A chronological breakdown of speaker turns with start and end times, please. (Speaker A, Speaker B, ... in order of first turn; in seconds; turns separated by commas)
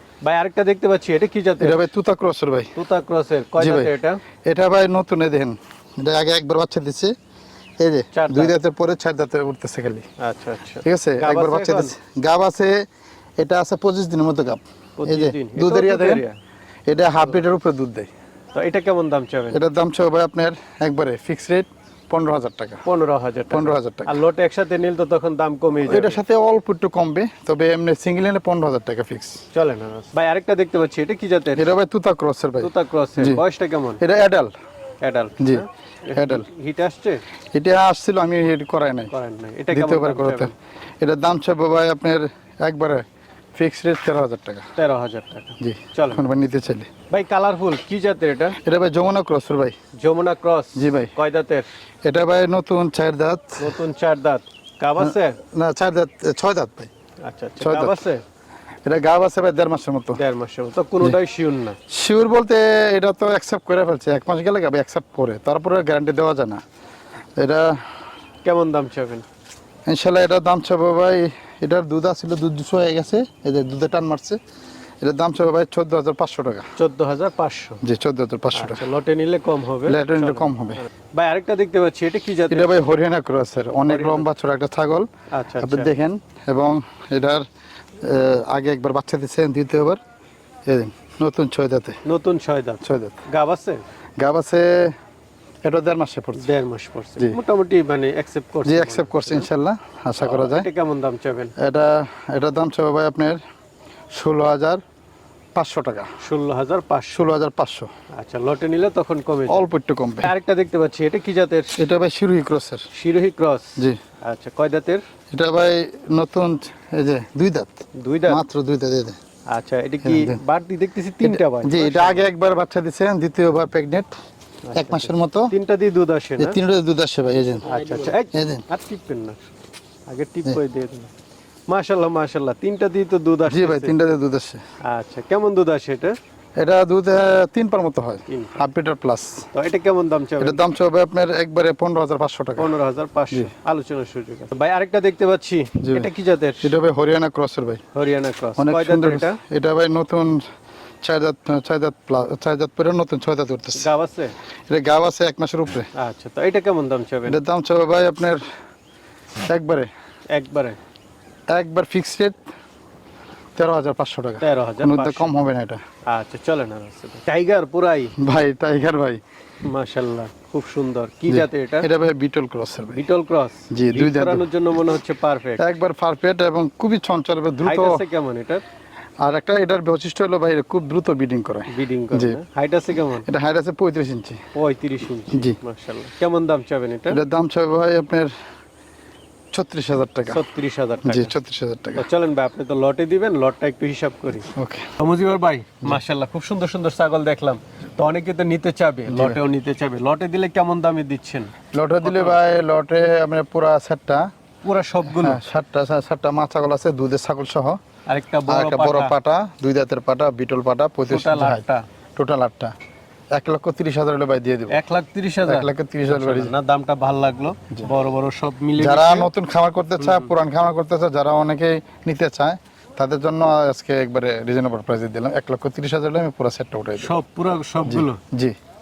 Speaker A: 0.2-1.8, Speaker B: 1.6-2.7, Speaker A: 2.7-4.2, Speaker B: 3.6-3.9, Speaker B: 4.5-7.1, Speaker B: 7.8-10.0, Speaker A: 8.1-8.6, Speaker A: 10.2-11.9, Speaker B: 10.8-12.8, Speaker B: 13.4-16.2, Speaker A: 15.0-16.3, Speaker B: 16.9-18.1, Speaker A: 18.5-19.6, Speaker B: 19.5-22.8, Speaker A: 22.8-26.2, Speaker B: 23.5-24.2, Speaker B: 25.8-29.4, Speaker A: 29.5-31.7, Speaker B: 31.5-33.4, Speaker A: 32.6-34.0, Speaker B: 34.0-34.5, Speaker A: 35.0-37.2, Speaker B: 36.1-36.5, Speaker B: 37.5-39.1, Speaker A: 39.1-40.5, Speaker B: 39.7-43.0, Speaker B: 43.5-44.7, Speaker A: 44.8-46.3, Speaker B: 45.6-46.9, Speaker A: 47.1-48.6, Speaker B: 48.6-49.8, Speaker A: 50.0-51.6, Speaker B: 50.8-51.1, Speaker B: 52.0-53.7, Speaker A: 53.6-55.4, Speaker B: 55.0-56.9, Speaker A: 57.2-58.2, Speaker B: 57.6-58.0, Speaker B: 58.9-60.2, Speaker A: 60.1-61.8, Speaker B: 61.9-66.6, Speaker B: 67.4-67.8, Speaker A: 68.4-69.2, Speaker B: 69.9-74.4, Speaker B: 75.0-76.7, Speaker A: 76.8-77.8, Speaker B: 77.8-78.9, Speaker A: 78.5-82.8, Speaker B: 79.8-80.8, Speaker B: 82.5-85.1, Speaker A: 83.9-84.2, Speaker A: 85.3-85.9, Speaker B: 85.6-87.4, Speaker B: 88.0-90.0, Speaker B: 90.7-92.0, Speaker A: 92.0-93.8, Speaker B: 92.8-93.2, Speaker B: 94.2-94.9, Speaker B: 95.6-96.5, Speaker A: 96.3-99.5, Speaker B: 98.6-100.7, Speaker A: 100.2-101.5, Speaker B: 101.6-103.4, Speaker B: 104.1-104.8, Speaker B: 105.5-106.1, Speaker A: 106.2-107.3, Speaker B: 107.1-107.9, Speaker A: 108.1-109.6, Speaker B: 109.5-110.3, Speaker A: 110.2-111.7, Speaker B: 111.8-112.8, Speaker A: 112.9-115.0, Speaker B: 115.3-119.2, Speaker A: 118.0-118.4, Speaker A: 119.5-122.3, Speaker B: 120.0-120.4, Speaker B: 121.2-124.1, Speaker A: 124.7-126.6, Speaker B: 124.7-125.5, Speaker B: 126.4-127.7, Speaker A: 127.6-129.5, Speaker B: 128.3-128.6, Speaker A: 130.1-131.1, Speaker A: 131.7-134.0, Speaker B: 133.4-134.6, Speaker A: 134.9-136.1, Speaker B: 136.6-139.5, Speaker A: 138.3-138.6, Speaker A: 139.5-140.6, Speaker B: 140.4-142.7, Speaker A: 142.6-146.8, Speaker B: 145.8-146.1, Speaker B: 146.6-147.8, Speaker A: 147.9-149.4, Speaker B: 148.6-150.4, Speaker B: 151.0-153.9, Speaker A: 153.8-154.3, Speaker B: 154.7-155.9, Speaker A: 155.9-157.4, Speaker B: 157.2-158.4, Speaker B: 159.4-159.9, Speaker A: 160.3-160.8, Speaker B: 161.5-162.4, Speaker B: 163.6-165.8, Speaker A: 164.4-165.3, Speaker A: 166.1-168.1, Speaker B: 168.2-169.2, Speaker A: 169.6-171.9, Speaker B: 171.3-173.0, Speaker A: 172.9-175.6, Speaker B: 173.7-174.5, Speaker B: 175.6-178.0, Speaker A: 177.6-178.6, Speaker B: 179.2-182.4, Speaker A: 181.7-183.3, Speaker B: 183.2-184.4, Speaker A: 184.5-187.2, Speaker B: 185.3-185.6, Speaker B: 187.1-188.3, Speaker B: 189.5-190.4, Speaker A: 190.3-191.3, Speaker B: 191.0-192.1, Speaker A: 191.9-202.4, Speaker B: 194.5-194.9, Speaker B: 199.1-199.4, Speaker B: 201.7-204.3, Speaker A: 204.6-205.4, Speaker B: 205.1-207.8, Speaker A: 208.1-209.1, Speaker B: 208.5-211.6, Speaker A: 211.1-211.8, Speaker B: 212.2-212.7, Speaker B: 213.3-214.8, Speaker A: 214.7-219.3, Speaker B: 215.4-216.5, Speaker B: 218.8-227.2, Speaker A: 220.0-220.3, Speaker A: 227.0-228.2, Speaker B: 227.8-228.6